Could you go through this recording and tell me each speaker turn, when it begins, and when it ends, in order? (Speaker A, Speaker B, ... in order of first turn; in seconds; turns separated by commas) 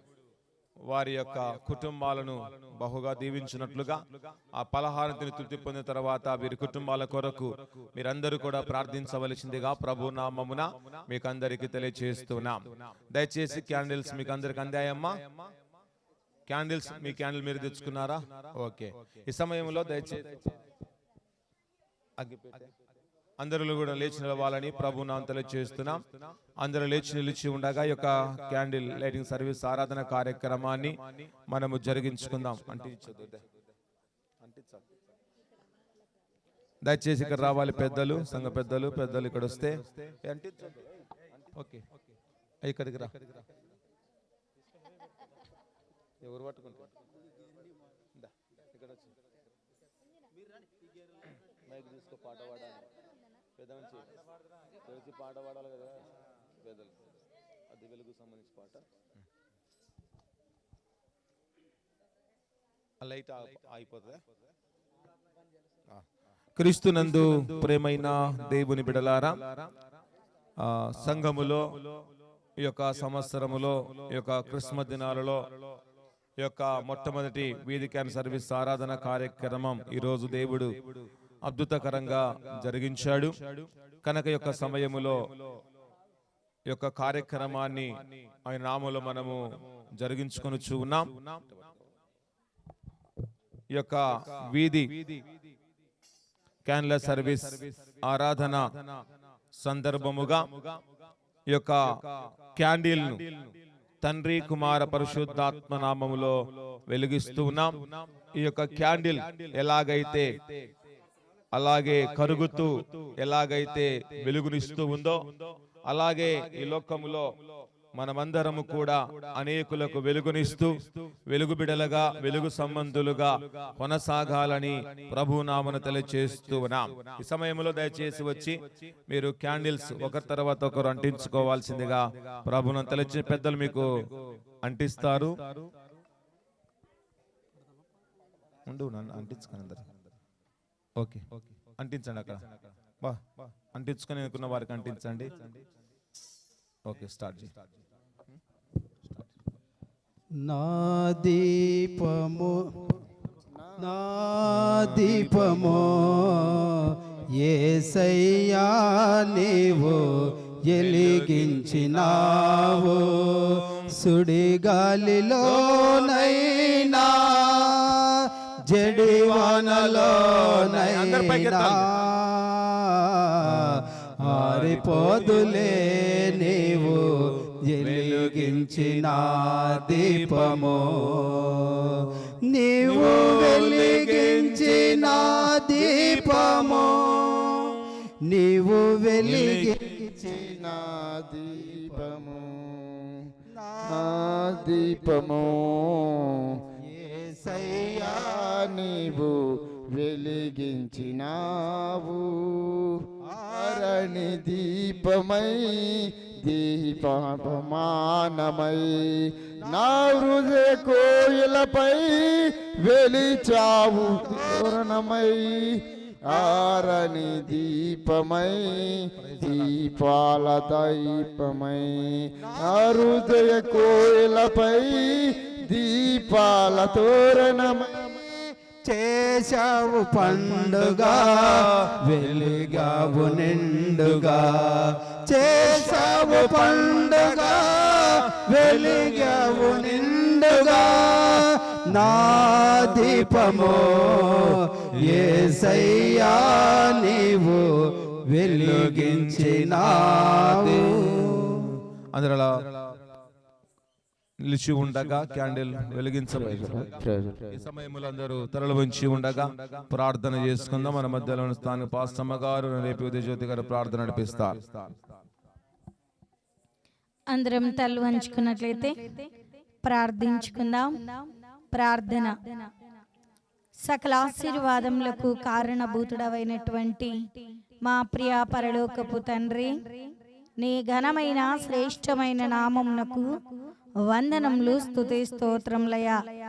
Speaker A: 0.9-4.0, Speaker A: 4.5-15.2, Speaker A: 16.5-20.6, Speaker A: 22.2-22.7, Speaker A: 23.4-26.0, Speaker A: 26.6-31.0, Speaker A: 31.5-33.4, Speaker A: 34.4-34.8, Speaker A: 36.8-40.7, Speaker A: 41.6-41.9, Speaker A: 42.6-43.2, Speaker A: 46.2-46.9, Speaker A: 48.2-49.1, Speaker A: 51.7-52.9, Speaker A: 53.6-54.0, Speaker A: 54.9-56.0, Speaker A: 56.6-56.9, Speaker A: 57.7-58.8, Speaker A: 63.0-64.2, Speaker A: 66.6-69.4, Speaker A: 70.6-71.7, Speaker A: 72.6-75.4, Speaker A: 76.4-80.7, Speaker A: 81.4-85.2, Speaker A: 86.7-87.9, Speaker A: 88.5-89.4, Speaker A: 90.0-91.4, Speaker A: 93.7-95.2, Speaker A: 96.7-98.7, Speaker A: 99.6-100.7, Speaker A: 101.5-102.0, Speaker A: 102.6-103.5, Speaker A: 104.0-106.4, Speaker A: 106.9-107.8, Speaker A: 108.4-110.3, Speaker A: 111.5-115.2, Speaker A: 115.9-117.2, Speaker A: 118.0-128.6, Speaker A: 129.1-133.9, Speaker A: 134.6-135.3, Speaker A: 138.7-139.9, Speaker A: 141.0-141.2, Speaker A: 141.8-142.4, Speaker A: 143.0-145.6, Speaker A: 146.9-147.5, Speaker B: 150.4-152.7, Speaker C: 153.5-153.9, Speaker B: 153.8-177.1, Speaker A: 154.5-156.0, Speaker A: 160.8-162.9, Speaker A: 165.4-166.2, Speaker A: 169.0-171.9, Speaker A: 174.3-175.6, Speaker B: 177.7-181.9, Speaker A: 177.8-179.0, Speaker A: 179.9-180.6, Speaker B: 182.5-187.7, Speaker A: 182.8-186.8, Speaker B: 188.3-190.6, Speaker A: 189.2-189.8, Speaker C: 190.2-193.2, Speaker B: 191.6-192.1, Speaker B: 193.6-194.0, Speaker C: 193.9-196.5, Speaker B: 196.8-198.4, Speaker C: 198.0-202.9, Speaker B: 203.3-203.8, Speaker C: 203.4-215.7, Speaker C: 216.3-228.1, Speaker B: 228.8-247.7, Speaker A: 230.2-231.6, Speaker A: 233.8-234.3, Speaker A: 235.4-241.4, Speaker A: 241.9-244.0, Speaker A: 245.2-245.5, Speaker B: 248.3-251.6, Speaker A: 248.4-251.6, Speaker A: 252.1-252.5, Speaker A: 254.4-264.9, Speaker C: 256.3-257.3, Speaker D: 267.3-269.2, Speaker D: 269.8-271.1, Speaker D: 271.7-272.6, Speaker D: 273.8-277.1, Speaker D: 277.8-279.8, Speaker D: 280.6-283.3, Speaker D: 284.1-286.2